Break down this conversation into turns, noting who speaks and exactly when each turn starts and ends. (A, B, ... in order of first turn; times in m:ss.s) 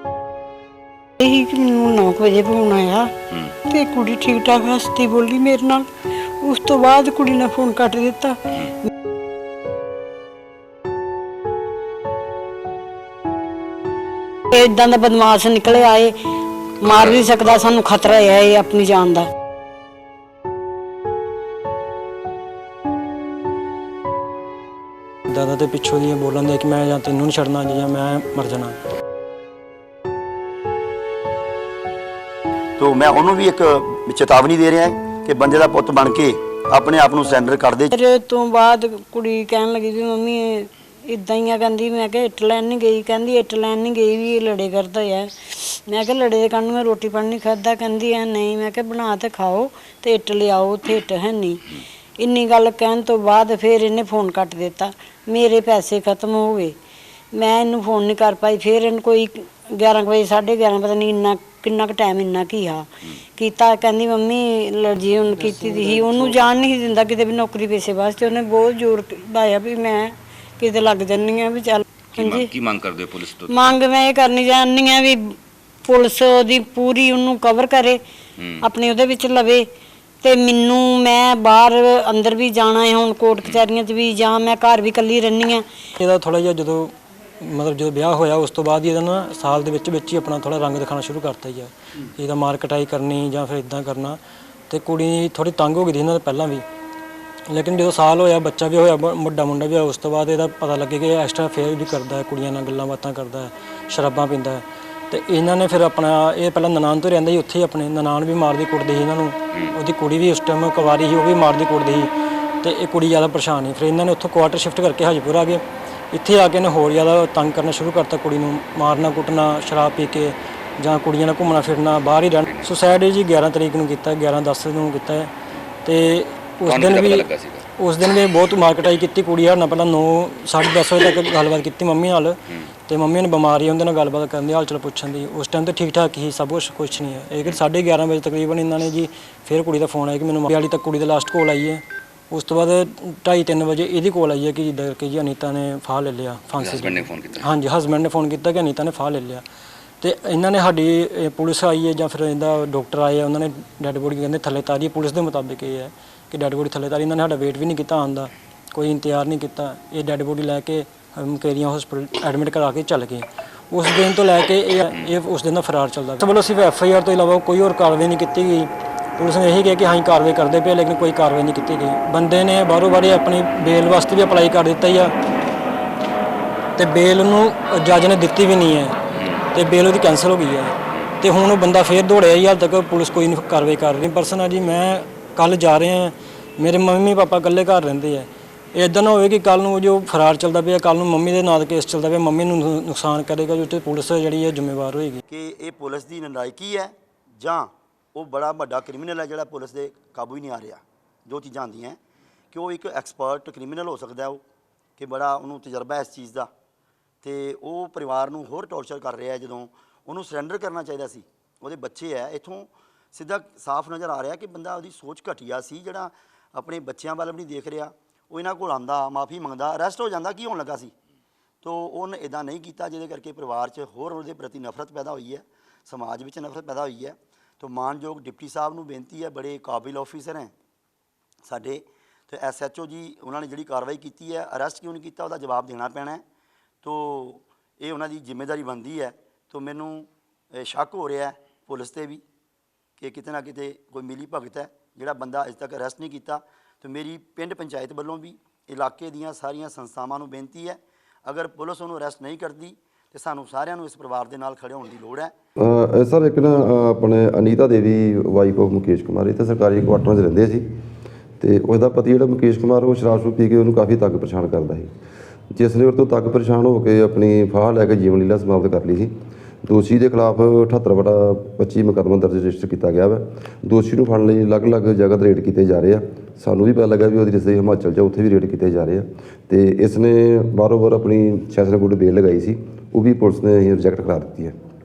0:01.2-0:03.1 A
0:03.3-0:03.6 B
0:03.6-0:05.9 A
0:06.4-0:08.4 A
0:14.5-0:16.1 A
0:16.8-0:19.3 A
0:16.8-0:17.2 B
0:25.3-0:28.8 C
0:32.8-0:37.9 D
0:37.9-0:56.7 A
0:57.3-1:12.5 A
1:12.2-1:13.7 B
1:13.5-1:18.0 A
1:18.4-1:18.7 B
1:18.6-1:19.6 A
1:20.2-1:25.6 A
1:26.0-1:34.2 C
1:34.7-1:36.6 C
1:37.5-1:52.1 C
1:52.6-2:05.3 C
2:02.4-2:02.7 B
2:05.8-2:07.2 C
2:06.6-2:07.6 B
2:07.8-2:29.4 C
2:26.6-2:27.5 B
2:30.0-2:55.1 C
2:56.8-2:59.0 C
2:59.1-2:59.4 B
2:59.5-3:15.2 C
3:15.3-3:22.0 D
3:22.5-3:24.4 D
3:25.0-3:26.5 D
3:27.2-3:40.9 D
3:41.6-3:50.5 D
3:51.4-3:56.2 D
3:56.8-4:02.2 D
4:03.0-4:15.3 D
4:15.6-4:20.6 E
4:21.4-4:24.9 E
4:25.5-4:29.1 E
4:29.6-4:44.5 E